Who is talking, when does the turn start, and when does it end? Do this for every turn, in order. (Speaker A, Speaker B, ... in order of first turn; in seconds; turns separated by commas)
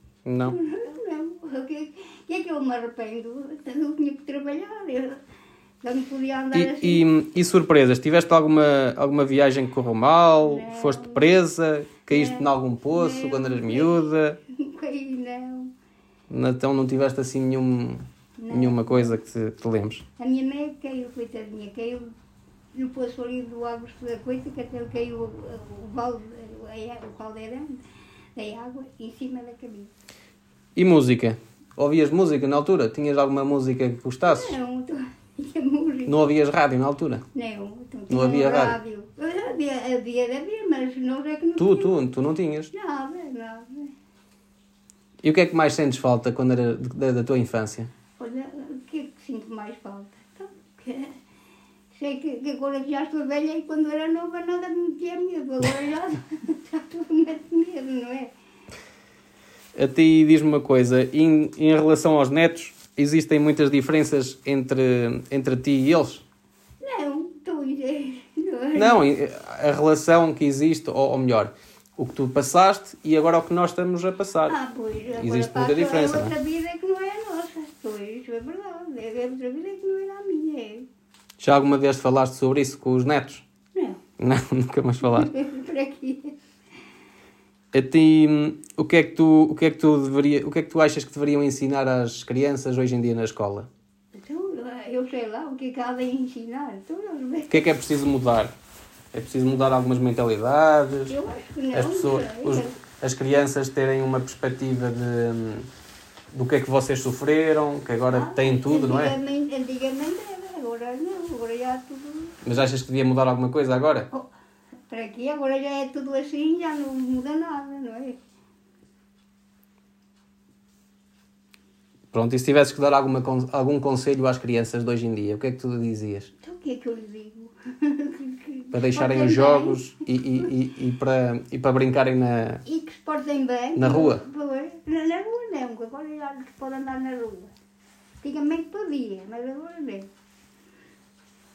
Speaker A: 0.3-0.6, Speaker B: 0.4-5.2, Speaker B: 5.8-7.1, Speaker A: 6.5-14.4, Speaker B: 10.4-11.4, Speaker B: 12.1-15.7, Speaker A: 16.3-20.0, Speaker B: 18.4-19.2, Speaker B: 20.2-22.1, Speaker B: 22.7-27.8, Speaker B: 28.4-29.9, Speaker A: 30.8-34.6, Speaker B: 34.2-36.2, Speaker A: 36.1-37.2, Speaker B: 37.3-42.0, Speaker A: 38.1-38.8, Speaker A: 41.6-42.7, Speaker B: 42.7-43.9, Speaker A: 45.2-47.9, Speaker B: 48.2-51.1, Speaker B: 51.9-58.3, Speaker A: 59.8-66.2, Speaker B: 66.8-69.0, Speaker A: 68.8-74.6, Speaker B: 74.5-80.9, Speaker A: 75.2-76.3, Speaker A: 81.4-83.4, Speaker B: 83.8-84.0, Speaker A: 84.2-85.3, Speaker B: 85.0-86.3, Speaker A: 87.7-93.7, Speaker B: 94.2-97.7, Speaker A: 97.5-98.5, Speaker A: 99.1-101.2, Speaker B: 101.1-102.8, Speaker A: 101.7-105.7, Speaker A: 106.3-109.2, Speaker B: 108.1-112.4, Speaker A: 112.4-114.1, Speaker B: 114.9-118.2, Speaker A: 122.1-126.3, Speaker B: 126.4-129.8, Speaker A: 128.7-132.6, Speaker B: 132.7-137.5, Speaker A: 133.8-134.2, Speaker B: 138.2-140.1